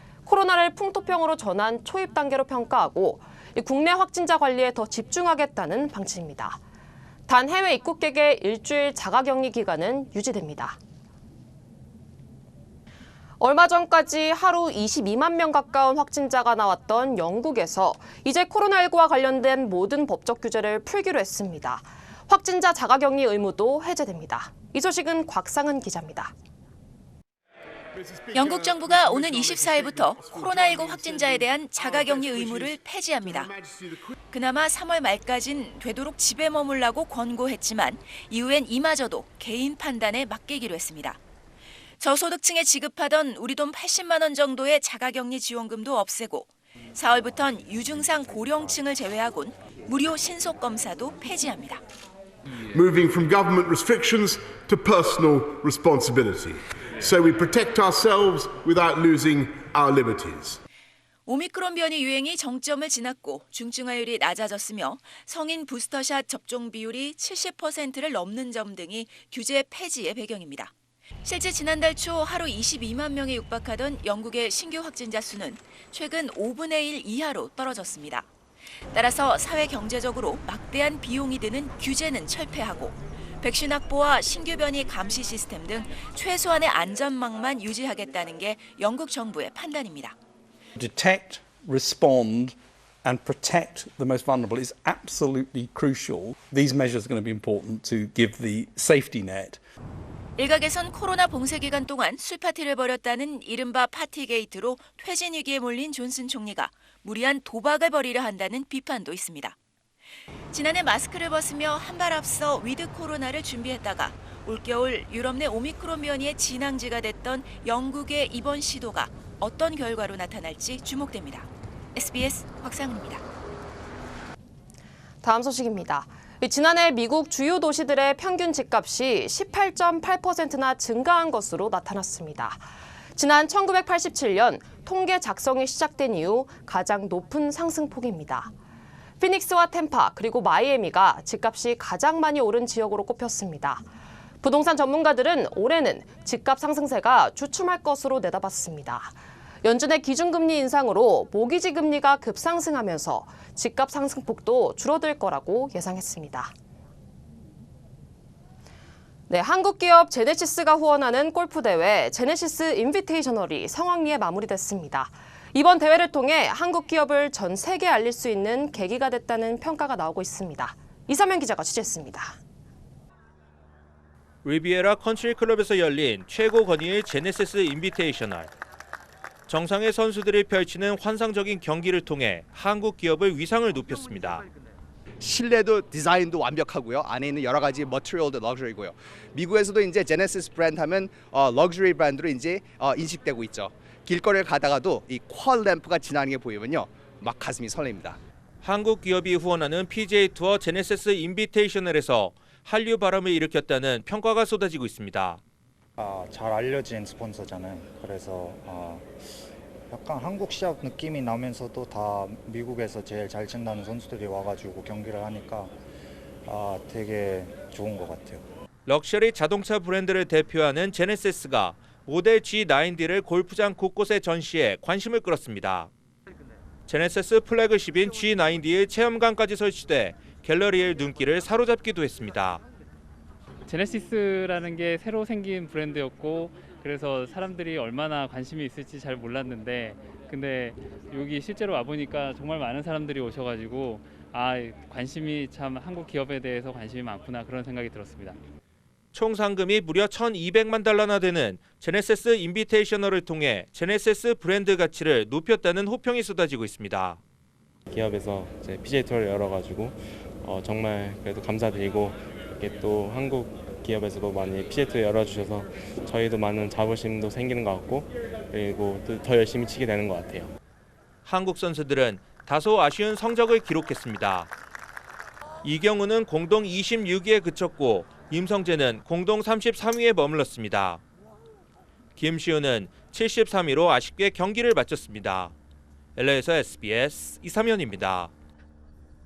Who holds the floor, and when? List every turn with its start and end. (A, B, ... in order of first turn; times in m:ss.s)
0:00.3-0:06.6 A
0:07.3-0:10.8 A
0:13.4-0:26.4 A
0:28.0-0:34.1 B
0:28.3-0:33.5 C
0:34.3-0:41.2 C
0:42.0-0:51.8 C
0:52.7-1:00.6 B
1:01.3-1:10.7 C
1:11.2-1:18.3 C
1:18.9-1:30.2 C
1:30.8-1:39.6 D
1:40.4-1:49.6 C
1:50.5-2:03.2 C
2:05.2-2:18.5 A
2:19.2-2:23.9 A
2:24.4-2:36.5 A
2:39.3-2:52.4 A
2:54.4-2:58.5 E
2:59.5-3:04.4 E
3:05.2-3:18.2 F
3:18.6-3:25.4 E
3:26.0-3:35.8 G
3:36.4-3:38.5 G
3:38.9-3:45.9 E
3:46.9-3:52.6 E
3:53.6-4:08.4 H
4:09.1-4:17.2 E
4:17.9-4:30.5 I
4:31.2-4:34.5 E
4:35.6-4:41.0 E
4:42.2-4:45.6 E
4:46.2-4:48.3 E